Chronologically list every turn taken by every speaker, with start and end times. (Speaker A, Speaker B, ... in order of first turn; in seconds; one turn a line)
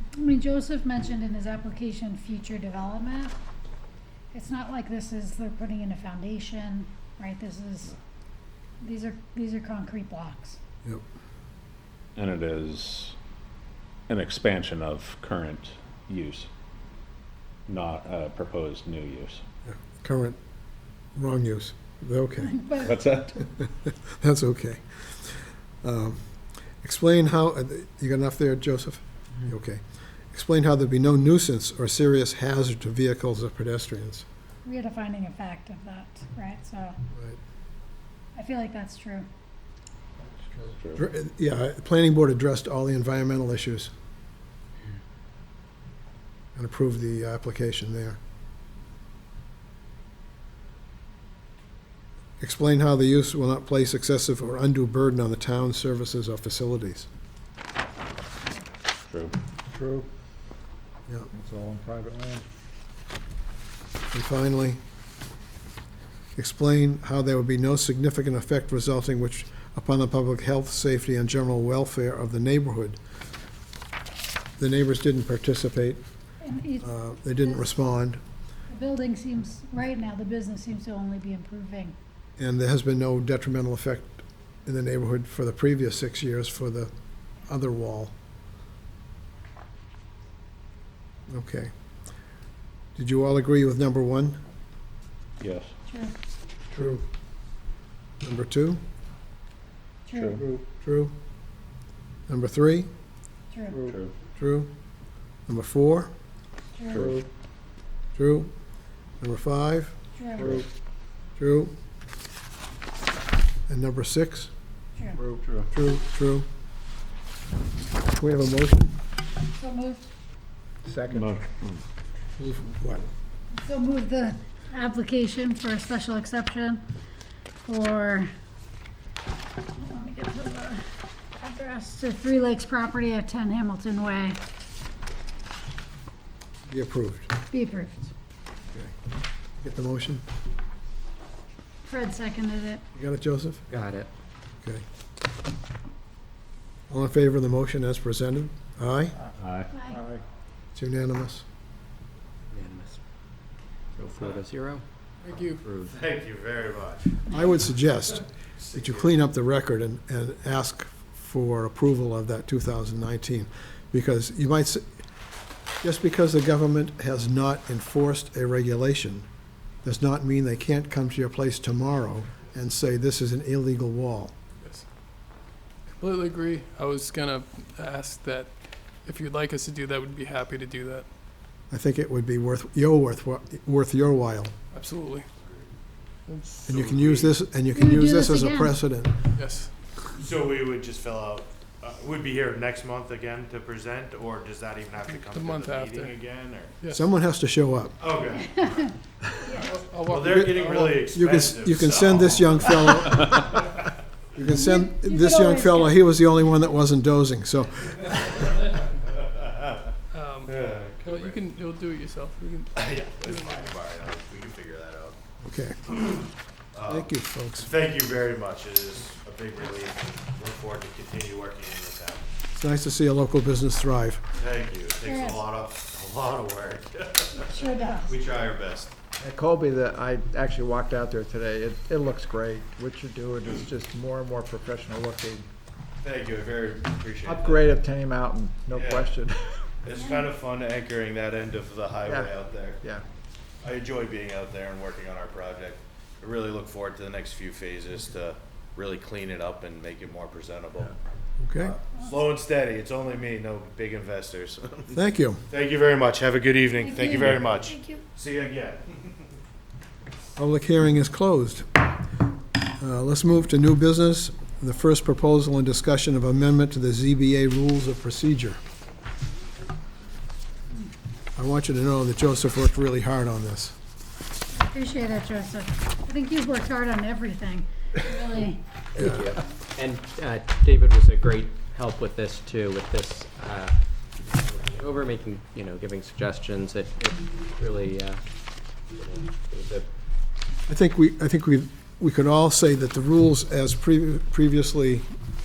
Speaker A: 0.1-3.4
Speaker A: 4.3-7.9
Speaker A: 8.8-10.6
Speaker B: 12.2-13.2
Speaker B: 14.1-16.5
Speaker B: 17.7-19.4
Speaker C: 19.7-20.4
Speaker C: 21.2-22.6
Speaker A: 22.5-23.0
Speaker B: 22.9-23.3
Speaker C: 23.6-26.2
Speaker C: 26.8-29.8
Speaker C: 30.3-34.3
Speaker A: 34.6-37.0
Speaker A: 38.4-39.3
Speaker C: 41.0-43.9
Speaker C: 46.6-48.2
Speaker C: 52.4-57.1
Speaker B: 59.1-59.3
Speaker D: 59.7-60.1
Speaker D: 61.3-62.4
Speaker C: 64.1-64.8
Speaker C: 66.4-73.0
Speaker C: 74.6-76.0
Speaker A: 76.4-77.6
Speaker C: 76.8-78.2
Speaker A: 78.7-82.0
Speaker C: 82.4-86.9
Speaker C: 87.5-88.1
Speaker C: 91.3-91.7
Speaker C: 93.0-94.4
Speaker B: 95.4-95.7
Speaker A: 95.9-96.1
Speaker C: 98.2-98.8
Speaker A: 100.1-100.4
Speaker C: 100.8-101.1
Speaker C: 102.3-102.9
Speaker A: 103.5-103.8
Speaker B: 103.8-104.1
Speaker C: 104.4-104.7
Speaker C: 105.5-106.1
Speaker A: 106.8-107.1
Speaker C: 108.2-108.5
Speaker C: 109.2-110.0
Speaker A: 110.2-110.6
Speaker C: 111.4-111.8
Speaker C: 113.7-114.5
Speaker A: 115.0-115.2
Speaker C: 115.7-116.5
Speaker C: 118.1-119.0
Speaker A: 119.5-120.0
Speaker D: 120.8-121.4
Speaker B: 121.1-121.8
Speaker C: 122.4-123.1
Speaker A: 123.6-126.8
Speaker A: 127.7-128.3
Speaker A: 129.7-130.8
Speaker A: 131.4-134.4
Speaker C: 136.7-137.3
Speaker A: 137.5-138.1
Speaker C: 139.6-140.2
Speaker A: 141.8-142.8
Speaker C: 142.9-143.6
Speaker E: 143.7-144.1
Speaker C: 146.9-149.2
Speaker B: 149.4-149.7
Speaker A: 149.7-150.0
Speaker D: 149.9-150.2
Speaker C: 150.8-151.4
Speaker E: 152.5-153.0
Speaker E: 154.0-154.8
Speaker F: 155.2-155.6
Speaker E: 155.6-155.9
Speaker G: 155.9-157.3
Speaker C: 157.3-164.8
Speaker G: 158.6-159.2
Speaker C: 165.8-169.3
Speaker C: 169.8-174.3
Speaker F: 174.6-174.9
Speaker F: 176.0-181.1
Speaker C: 181.7-184.5
Speaker F: 184.7-185.3
Speaker G: 185.4-185.7
Speaker F: 186.3-186.7
Speaker C: 186.7-189.2
Speaker G: 186.7-187.3
Speaker A: 187.7-188.8
Speaker F: 189.3-189.7
Speaker G: 190.1-196.7
Speaker F: 195.1-196.2
Speaker C: 196.9-198.0
Speaker G: 198.0-198.9
Speaker A: 198.6-198.8
Speaker F: 199.7-200.9
Speaker G: 200.1-203.6
Speaker C: 200.2-203.4
Speaker C: 204.3-208.3
Speaker A: 204.4-206.0
Speaker G: 209.2-209.9
Speaker F: 210.1-213.6
Speaker G: 210.5-211.4
Speaker G: 212.8-215.2
Speaker C: 215.4-215.9
Speaker G: 216.7-222.2
Speaker C: 216.9-217.7
Speaker C: 222.5-224.2
Speaker G: 224.4-228.9
Speaker A: 225.0-225.4
Speaker A: 227.4-228.2
Speaker D: 229.2-235.5
Speaker G: 236.0-237.8
Speaker D: 237.2-239.7
Speaker G: 238.7-239.2
Speaker G: 239.8-242.8
Speaker A: 240.0-240.2
Speaker D: 242.0-243.1
Speaker G: 243.6-250.9
Speaker C: 251.4-251.8
Speaker G: 251.6-255.0
Speaker C: 254.9-255.4
Speaker G: 255.5-259.2
Speaker A: 256.8-258.0
Speaker C: 260.4-261.7
Speaker C: 262.8-268.6
Speaker C: 271.4-273.8
Speaker A: 274.5-278.6
Speaker E: 278.9-283.8
Speaker E: 284.3-289.9
Speaker C: 290.7-295.1